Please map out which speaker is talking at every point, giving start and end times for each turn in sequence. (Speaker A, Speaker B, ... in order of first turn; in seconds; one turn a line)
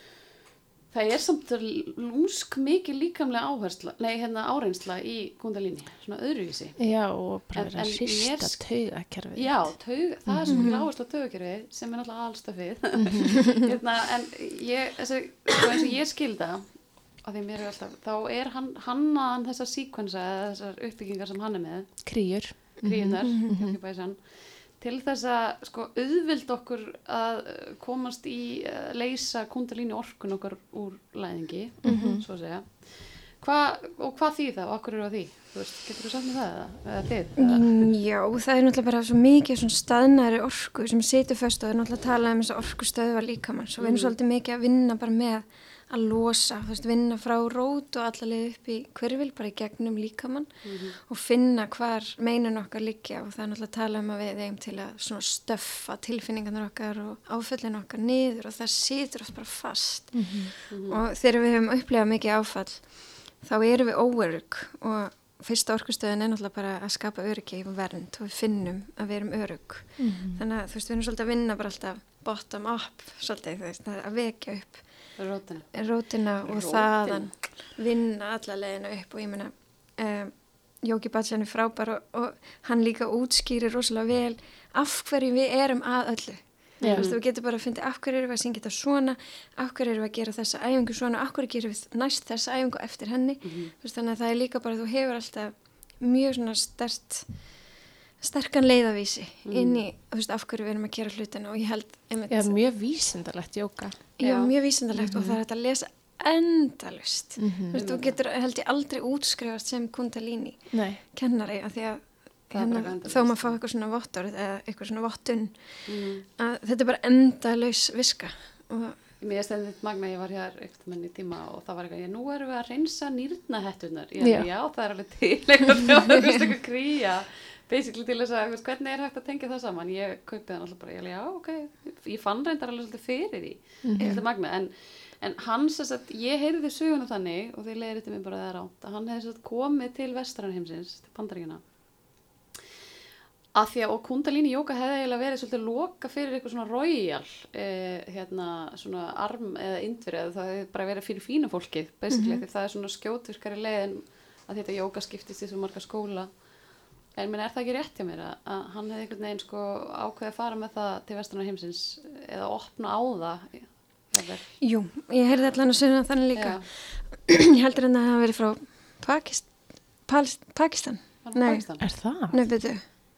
Speaker A: 0.9-6.8
Speaker B: 6.8-10.7
Speaker A: 7.5-8.7
Speaker A: 9.3-22.1
Speaker C: 10.5-10.9
Speaker B: 13.0-13.3
Speaker B: 22.1-23.8
Speaker A: 22.8-37.8
Speaker B: 31.8-32.2
Speaker C: 31.9-32.2
Speaker C: 37.4-102.6
Speaker A: 43.8-44.1
Speaker A: 50.6-51.0
Speaker B: 60.1-60.5
Speaker A: 60.7-61.0
Speaker B: 70.0-70.4
Speaker A: 75.2-75.9
Speaker A: 76.4-77.5
Speaker A: 86.8-87.2
Speaker B: 86.8-87.1
Speaker A: 93.4-93.7
Speaker A: 99.5-99.8
Speaker B: 102.3-104.1
Speaker C: 104.2-119.0
Speaker A: 104.2-104.5
Speaker B: 105.0-105.4
Speaker B: 107.4-107.8
Speaker A: 107.7-108.2
Speaker B: 110.7-111.0
Speaker A: 112.5-113.6
Speaker A: 115.9-116.3
Speaker A: 119.2-141.7
Speaker B: 124.2-124.5
Speaker B: 133.8-134.2
Speaker A: 143.5-156.5
Speaker C: 152.1-152.4
Speaker A: 157.1-164.6
Speaker C: 164.6-172.8
Speaker A: 166.3-166.7
Speaker A: 171.2-171.9
Speaker B: 171.8-172.4